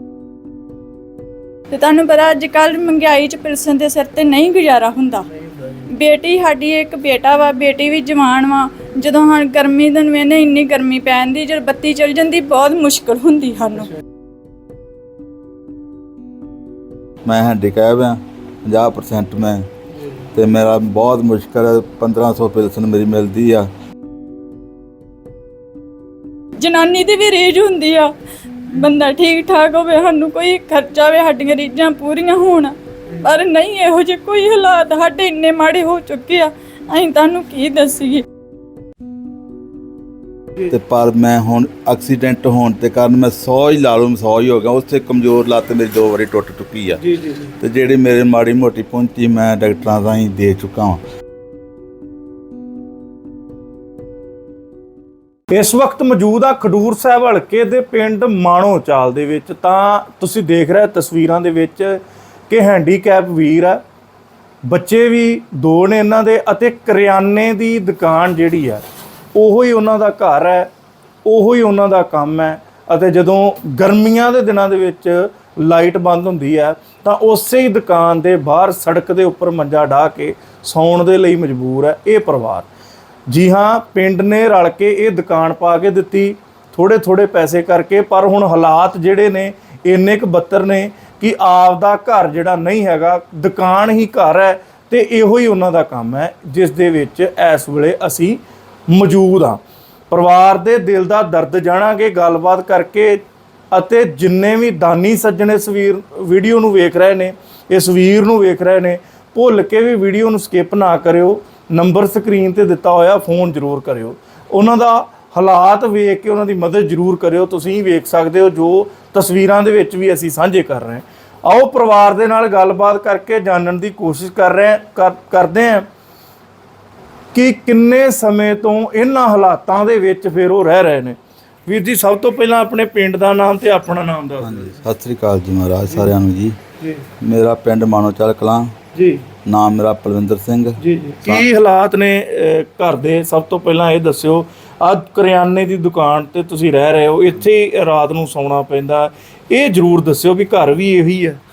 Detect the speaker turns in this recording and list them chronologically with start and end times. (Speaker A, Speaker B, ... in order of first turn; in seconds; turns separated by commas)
Speaker A: 1.7-5.3, Speaker A: 5.8-13.9, Speaker B: 17.2-19.7, Speaker B: 20.2-23.7, Speaker A: 26.6-28.1, Speaker A: 28.6-38.2, Speaker B: 40.6-51.0, Speaker C: 55.5-63.8, Speaker C: 64.6-70.7, Speaker C: 71.2-82.7, Speaker C: 83.3-125.9, Speaker C: 127.3-134.8, Speaker B: 134.4-136.6, Speaker B: 137.2-138.8, Speaker C: 138.9-139.2, Speaker B: 139.4-141.4, Speaker C: 140.8-151.4